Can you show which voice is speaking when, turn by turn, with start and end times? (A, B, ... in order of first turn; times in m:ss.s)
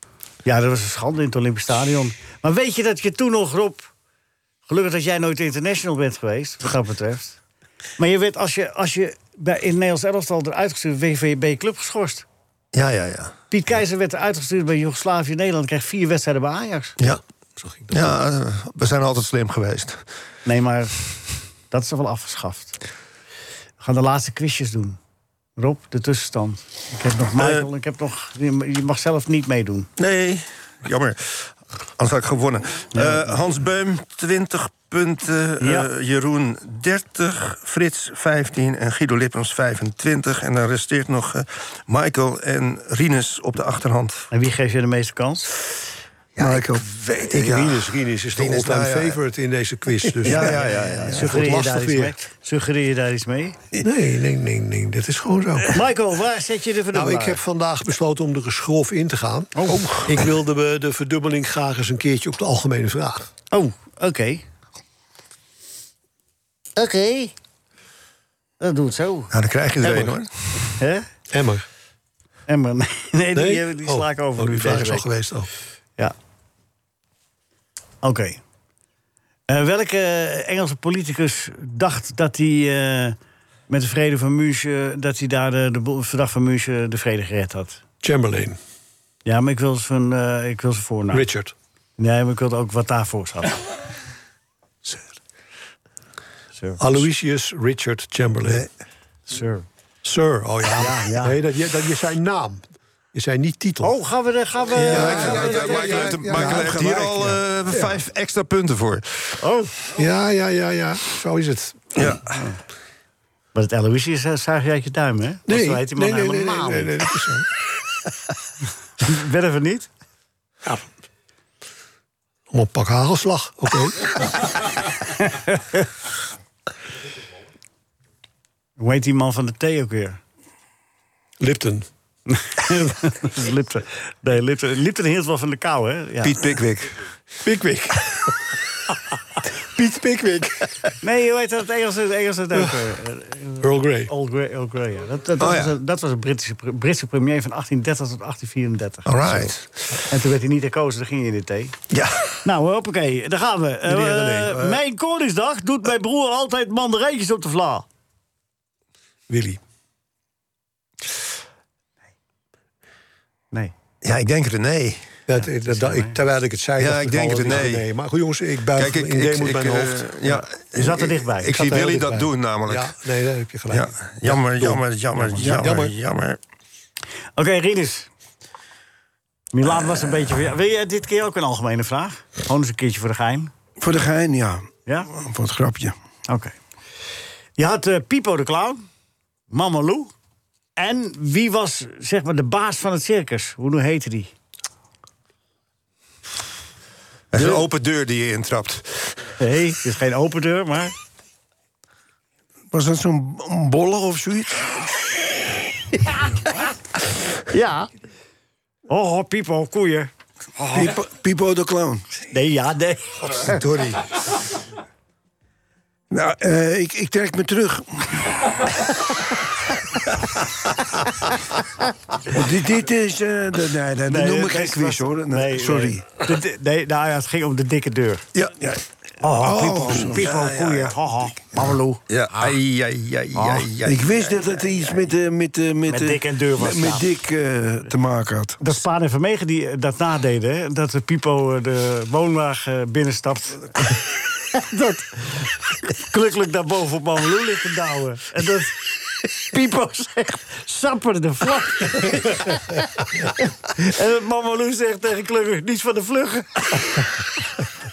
0:00.4-0:03.9 A
0:04.7-0:07.4 A
0:08.0-0:12.3 A
0:12.7-0:13.4 B
0:13.5-0:17.0 A
0:17.6-0:18.1 C
0:17.9-0:20.1 B
0:20.4-0:21.1 A
0:21.7-0:22.8 A
0:23.8-0:25.0 A
0:25.6-0:29.9 A
0:27.4-0:27.7 B
0:30.0-0:44.3 B
0:32.9-0:33.4 A
0:35.6-0:35.9 A
0:44.3-0:45.6 A
0:46.4-0:47.3 D
0:46.4-0:46.6 C
0:47.2-0:52.2 C
0:47.3-0:49.2 B
0:50.2-0:51.4 B
0:50.2-0:53.6 A
0:53.8-0:55.7 C
0:55.7-0:57.4 A
0:56.9-1:03.3 C
0:59.6-0:59.9 A
1:03.5-1:04.4 A
1:06.8-1:07.3 A
1:08.6-1:10.1 A
1:09.3-1:10.3 B
1:10.7-1:11.1 A
1:11.3-1:11.7 C
1:12.5-1:15.1 A
1:13.4-1:15.5 C
1:18.0-1:18.4 A
1:19.5-1:23.2 A
1:23.7-1:27.8 A
1:28.0-1:28.6 C
1:29.2-1:31.3 A
1:31.1-1:31.5 C
1:32.0-1:33.6 A
1:36.6-1:37.1 A
1:36.8-1:38.7 C
1:39.3-1:39.7 A
1:40.0-1:44.0 C
1:40.8-1:41.4 A
1:43.8-1:46.6 A
1:44.7-1:47.2 C
1:44.7-1:49.4 B
1:45.4-1:47.2 D
1:49.4-1:49.7 A
1:49.9-1:52.1 C
1:53.5-1:57.0 A
1:55.5-1:57.5 C
1:59.0-1:59.9 A
2:02.5-2:04.1 C
2:05.2-2:05.9 A
2:08.8-2:10.2 A
2:11.4-2:11.9 C
2:12.3-2:16.5 A
2:16.2-2:17.0 B
2:17.4-2:18.3 C
2:19.8-2:20.6 C
2:21.0-2:29.5 A
2:23.6-2:24.1 C
2:29.1-2:29.9 B
2:30.0-2:31.8 A
2:31.9-2:32.4 B
2:32.4-2:37.8 A
2:34.0-2:34.8 B
2:34.0-2:34.5 C
2:39.3-2:39.6 C
2:44.0-2:45.2 B
2:45.3-2:50.4 C
2:45.4-2:46.2 A
2:46.8-2:47.8 B
2:48.8-2:52.9 B
2:50.7-2:52.0 A
2:51.5-2:55.9 C
2:53.7-2:56.4 B
2:57.4-2:58.1 A
2:59.5-3:03.5 A
3:03.8-3:06.0 D
3:06.3-3:06.6 A
3:07.6-3:08.9 A
3:09.5-3:10.1 A
3:10.8-3:14.3 A
3:17.3-3:19.2 B
3:19.4-3:21.0 A
3:22.7-3:25.0 D
3:27.5-3:27.9 A
3:28.9-3:31.0 A
3:30.7-3:32.0 D
3:32.3-3:33.6 A
3:33.4-3:34.0 B
3:36.1-3:38.2 D
3:42.3-3:46.1 D
3:44.1-3:48.3 A
3:48.6-3:50.3 D
3:49.2-3:52.0 A
3:50.2-3:51.0 B
3:52.1-3:55.0 B
3:53.3-3:53.7 A
3:53.8-3:58.6 D
3:55.9-3:57.1 A
3:58.6-4:16.7 A